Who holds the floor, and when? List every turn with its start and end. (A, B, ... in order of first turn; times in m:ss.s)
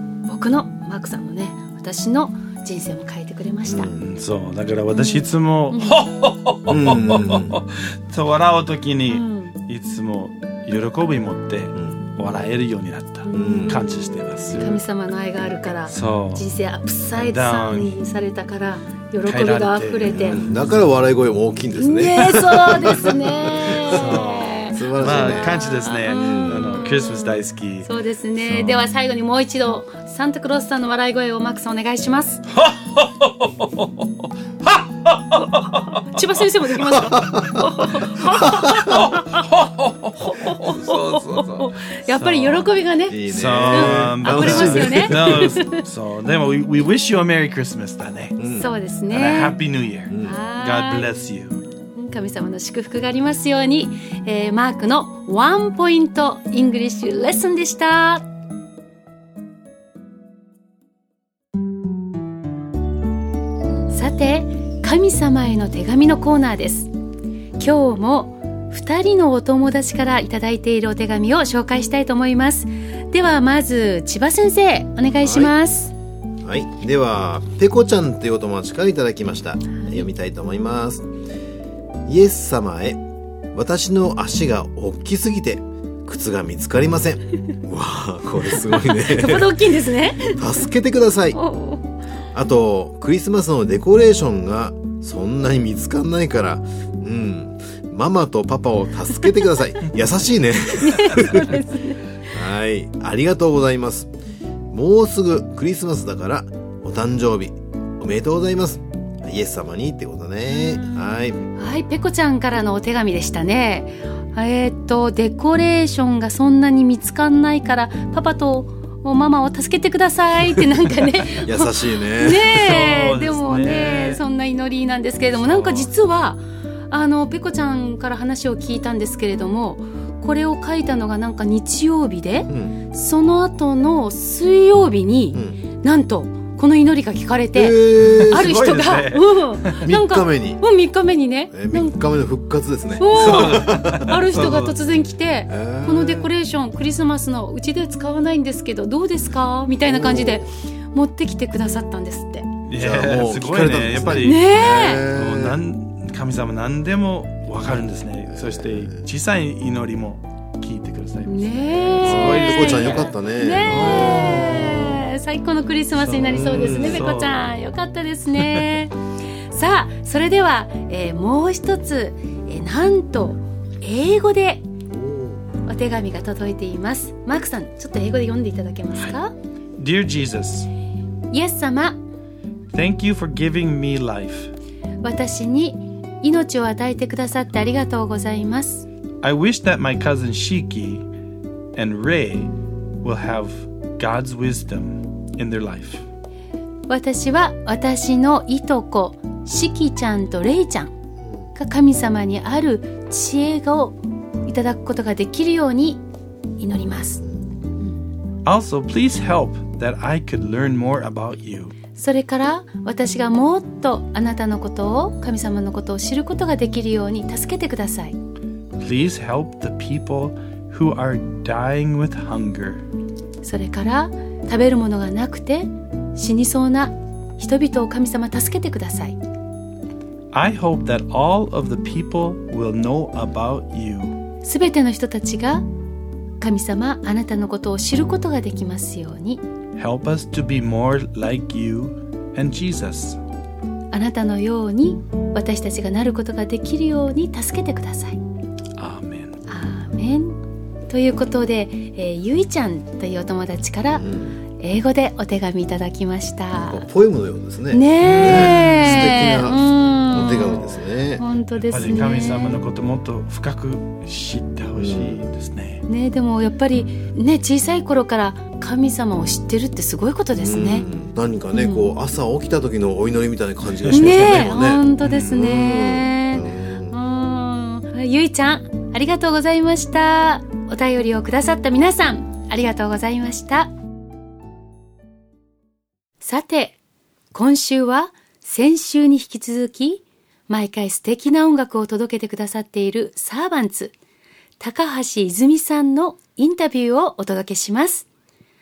0:00.3-0:03.9 A
0:03.6-0:04.0 B
0:04.0-0:14.8 C
0:04.9-0:06.0 A
0:06.7-0:07.6 B
0:09.1-0:09.6 A
0:13.2-0:13.9 A
0:13.4-0:13.8 B
0:14.6-0:20.4 A
0:15.9-0:16.5 C
0:17.2-0:18.0 C
0:19.2-0:20.6 C
0:20.1-0:24.2 B
0:21.8-0:32.4 A
0:23.9-0:27.9 C
0:24.7-0:26.7 B
0:28.5-0:28.7 C
0:32.6-0:33.9 C
0:34.7-0:35.9 C
0:36.1-0:39.4 A
0:37.1-0:37.6 B
0:38.4-0:39.0 B
0:39.0-0:42.7 C
0:40.2-0:45.8 A
0:43.1-0:45.4 B
0:43.3-0:48.4 C
0:48.4-0:48.7 B
0:48.6-0:49.6 A
0:49.1-0:51.6 C
0:50.1-0:50.4 B
0:50.2-0:51.1 A
0:52.0-0:58.2 A
1:03.9-1:06.9 A
1:07.6-1:15.9 A
1:15.2-1:15.6 B
1:16.4-1:21.1 B
1:22.1-1:23.0 B
1:23.5-1:29.7 B
1:28.8-1:30.4 A
1:30.3-1:31.4 B
1:31.3-1:31.9 A
1:32.3-1:41.6 B
1:40.8-1:42.0 A
1:42.3-1:44.1 B
1:44.7-1:51.4 B
1:50.5-2:22.0 A
2:01.4-2:02.5 B
2:02.5-2:04.2 C
2:05.4-2:05.9 C
2:12.5-2:12.8 B
2:15.3-2:15.6 B
2:17.5-2:18.7 B
2:18.1-2:19.8 C
2:19.8-2:20.6 B
2:21.5-2:24.5 B
2:23.0-2:32.5 A
2:23.1-2:24.8 C
2:25.5-2:26.3 B
2:29.8-2:30.4 B
2:32.7-2:34.4 C
2:32.8-2:35.6 B
2:34.1-2:35.1 A
2:35.1-2:44.7 C
2:38.3-2:39.0 B
2:41.3-2:48.9 A
2:42.0-2:44.9 B
2:46.0-2:47.5 C
2:46.3-2:47.1 B
2:48.4-2:48.6 C
2:49.5-2:54.6 A
2:54.9-2:55.4 B
2:55.6-2:59.3 A
2:59.8-3:00.7 C
3:01.3-3:02.0 A
3:02.7-3:04.5 C
3:05.0-3:08.9 A
3:09.2-3:11.0 C
3:11.8-3:16.1 C
3:16.9-3:20.9 A
3:21.6-3:26.0 A
3:26.6-3:27.2 A
3:28.4-3:31.8 C
3:32.0-3:38.2 A
3:38.8-3:42.8 C
3:43.4-3:49.2 A
3:50.3-3:54.2 C
3:54.4-3:55.7 A
3:56.4-3:59.4 A
3:59.8-4:03.2 C
4:03.9-4:08.2 A
4:08.8-4:09.4 C
4:09.5-4:14.0 A
4:13.9-4:14.4 B
4:14.6-4:16.8 A
4:16.6-4:21.2 B
4:17.7-4:22.6 A
4:18.2-4:19.1 C
4:21.6-4:25.8 C
4:24.8-4:25.2 B
4:25.9-4:30.9 A
4:30.4-4:37.0 B
4:31.5-4:32.0 A
4:33.7-4:34.1 C
4:33.9-4:43.7 A
4:35.0-4:35.4 C
4:46.2-4:46.8 A
4:47.3-4:53.9 A
4:54.6-4:58.1 A